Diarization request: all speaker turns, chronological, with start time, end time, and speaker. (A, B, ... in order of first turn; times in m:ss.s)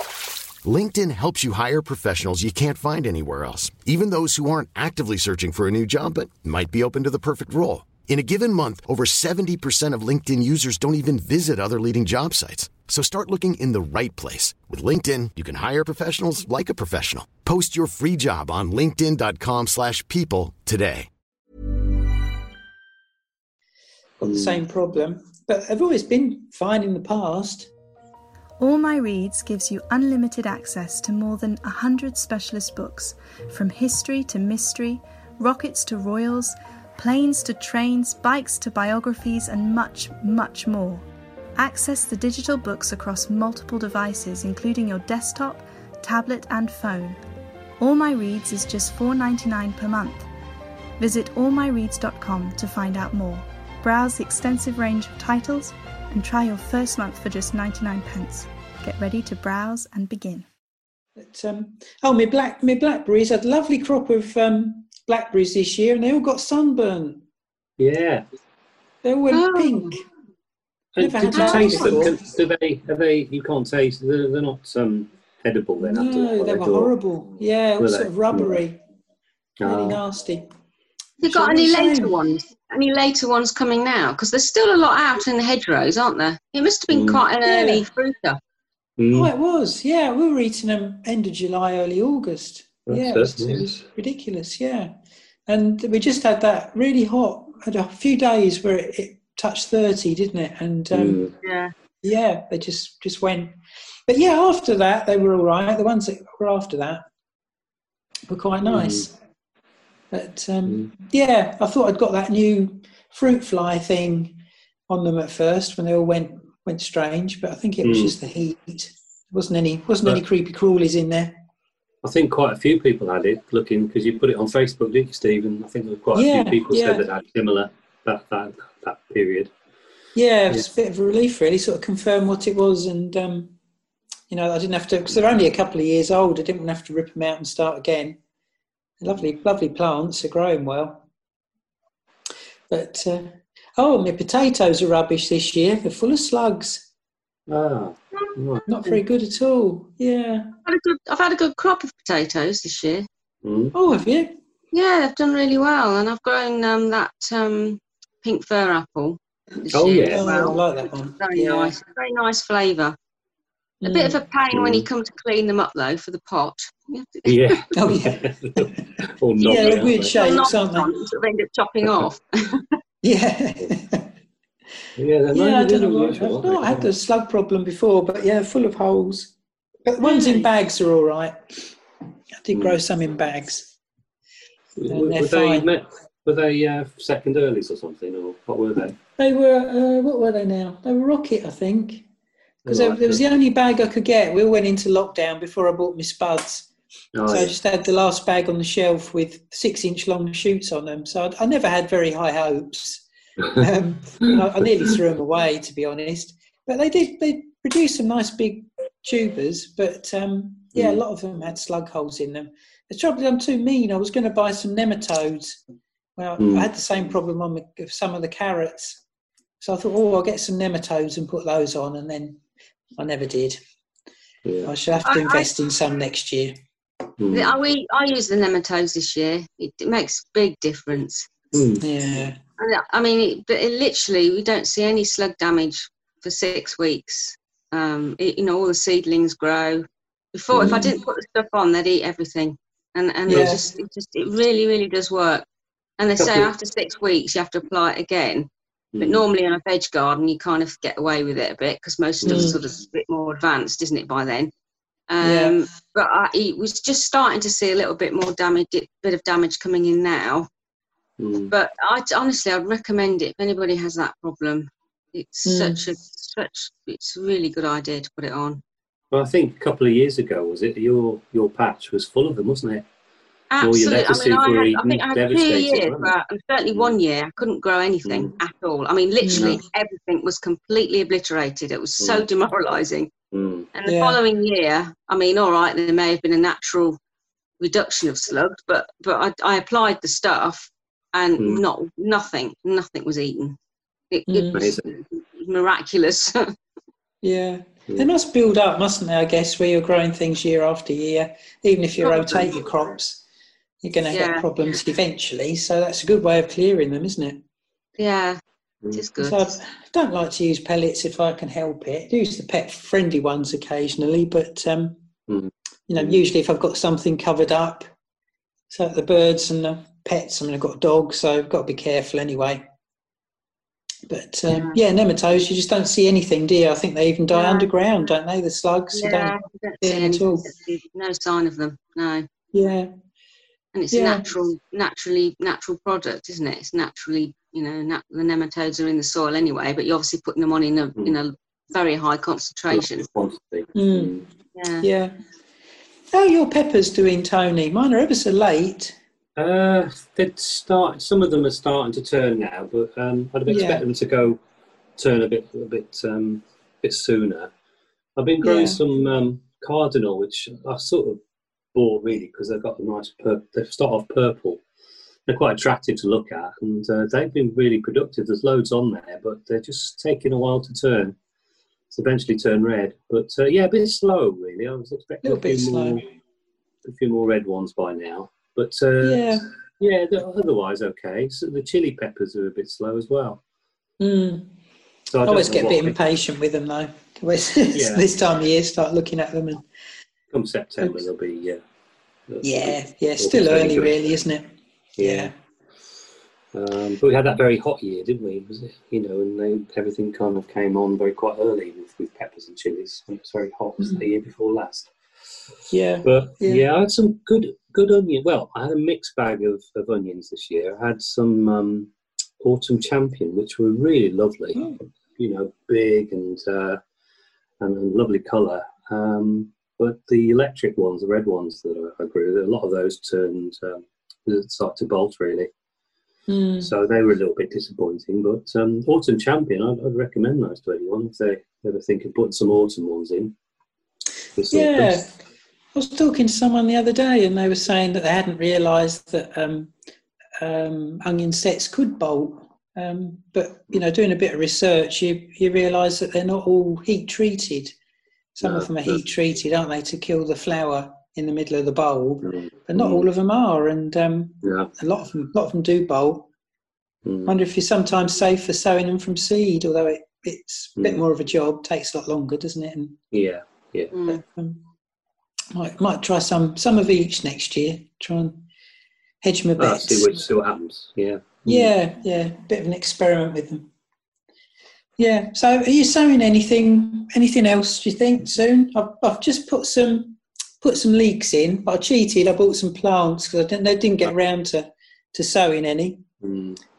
0:00.6-0:21.1 A
0:24.2-0:27.7 B
0:24.2-0:24.6 C
0:28.6-0:41.0 D
0:41.6-0:47.2 D
0:47.8-0:50.3 D
0:51.0-1:00.5 D
1:01.2-1:07.2 B
1:07.8-1:08.2 C
1:09.0-1:10.0 B
1:09.3-1:10.0 E
1:11.0-1:16.9 C
1:11.0-1:12.2 B
1:11.3-1:12.1 E
1:15.8-1:18.8 B
1:17.8-1:18.6 C
1:19.6-1:20.0 C
1:19.6-1:20.5 B
1:21.2-1:28.4 E
1:21.2-1:22.1 B
1:26.9-1:27.2 C
1:27.4-1:27.8 B
1:29.0-1:29.3 C
1:29.1-1:34.9 B
1:32.9-1:33.8 C
1:35.5-1:41.2 B
1:40.9-1:41.3 C
1:41.4-1:41.7 E
1:42.0-1:43.6 B
1:44.1-1:47.0 B
1:48.3-1:49.1 B
1:48.7-1:49.1 C
1:50.1-1:54.4 B
1:54.9-2:01.4 B
1:57.8-1:58.2 C
2:02.0-2:09.5 C
2:06.1-2:07.0 B
2:10.2-2:13.6 B
2:14.3-2:18.2 B
2:19.0-2:21.1 B
2:22.7-2:26.9 B
2:27.5-2:28.6 C
2:28.7-2:30.6 B
2:30.6-2:33.1 E
2:33.4-2:33.7 C
2:33.7-2:34.3 B
2:34.7-2:40.6 E
2:39.7-2:40.6 C
2:40.0-2:41.8 B
2:41.2-2:43.0 E
2:43.8-2:44.2 B
2:43.8-2:47.6 E
2:44.5-2:44.8 C
2:47.3-2:50.1 C
2:47.7-2:48.8 B
2:49.4-2:50.9 B
2:49.4-2:52.7 E
2:53.0-2:54.1 B
2:55.0-2:56.9 C
2:55.3-2:59.3 B
2:59.9-3:01.7 B
3:00.0-3:00.5 E
3:02.4-3:03.7 B
3:02.5-3:02.8 C
3:04.8-3:09.0 C
3:04.9-3:05.7 B
3:09.2-3:12.0 B
3:12.7-3:13.2 C
3:12.7-3:16.7 B
3:17.2-3:17.6 C
3:17.2-3:35.6 B
3:30.8-3:31.0 C
3:36.2-3:39.0 B
3:36.4-3:36.7 C
3:39.6-3:42.4 B
3:43.0-3:43.6 B
3:44.4-3:44.7 C
3:44.6-3:46.5 B
3:45.0-3:45.5 E
3:47.2-3:47.5 C
3:47.3-3:51.3 E
3:51.5-3:51.9 C
3:51.8-3:52.4 B
3:52.6-4:05.5 E
4:00.6-4:00.8 C
4:00.6-4:00.9 B
4:03.3-4:03.6 B
4:03.3-4:03.6 C
4:06.0-4:08.5 E
4:06.2-4:06.5 C
4:08.9-4:09.2 C
4:09.0-4:14.5 E
4:12.2-4:12.6 C
4:12.3-4:12.6 B
4:15.1-4:20.5 E
4:15.2-4:15.6 B
4:21.2-4:21.5 C
4:21.5-4:28.6 E
4:25.4-4:25.8 B
4:29.1-4:32.9 C
4:33.5-4:43.1 E
4:33.6-4:36.1 C
4:38.0-4:38.3 C
4:39.2-4:39.6 B
4:39.3-4:39.6 C
4:43.3-4:43.7 C
4:43.8-4:47.0 E
4:43.9-4:44.2 B
4:47.6-4:53.6 E
4:54.1-4:56.5 E
4:54.3-4:54.6 B
4:54.5-4:54.9 C
4:57.2-5:03.2 B
5:02.0-5:02.5 E
5:03.8-5:07.4 B
5:04.1-5:04.5 E
5:08.0-5:08.4 E
5:08.9-5:09.5 E
5:09.2-5:15.0 B
5:15.3-5:16.3 C
5:15.9-5:17.9 B
5:18.7-5:22.6 B
5:24.1-5:30.5 B
5:24.5-5:24.8 E
5:27.3-5:27.7 E
5:28.9-5:32.3 E
5:32.5-5:32.9 B
5:33.7-5:43.1 E
5:33.9-5:34.2 B
5:42.7-5:44.2 C
5:43.8-5:44.2 B
5:44.6-5:44.9 E
5:44.8-5:45.2 B
5:46.1-5:49.0 B
5:49.4-5:54.4 C
5:53.5-5:53.8 B
5:55.0-5:57.5 C
5:58.2-6:01.2 C
5:58.4-5:58.8 B
6:01.7-6:04.6 C
6:05.3-6:11.2 C
6:11.9-6:16.0 C
6:15.2-6:16.0 B
6:16.8-6:23.4 C
6:19.0-6:19.4 B
6:24.0-6:24.5 B
6:25.1-6:26.0 C
6:25.2-6:29.6 B
6:27.7-6:28.1 C
6:30.3-6:31.6 C
6:32.3-6:34.0 C
6:32.4-6:35.3 B
6:35.0-6:35.3 C
6:36.5-6:44.9 C
6:45.7-6:46.7 B
6:46.0-6:56.8 C
6:57.6-7:05.5 C
7:06.3-7:06.7 B
7:06.6-7:13.4 C
7:14.4-7:15.1 C
7:14.5-7:15.1 B
7:15.8-7:19.7 B
7:20.4-7:27.7 B
7:28.4-7:36.3 B
7:28.4-7:29.0 C
7:32.2-7:33.1 C
7:34.4-7:34.7 C
7:37.0-7:37.3 C
7:37.3-7:43.0 B
7:40.8-7:41.0 C
7:43.1-7:43.9 C
7:43.9-7:44.2 E
7:44.1-7:44.6 B
7:45.5-7:48.4 B
7:49.2-7:50.3 B
7:49.6-7:51.7 C
7:51.4-7:53.7 B
7:55.0-8:06.1 B
8:06.2-8:06.6 C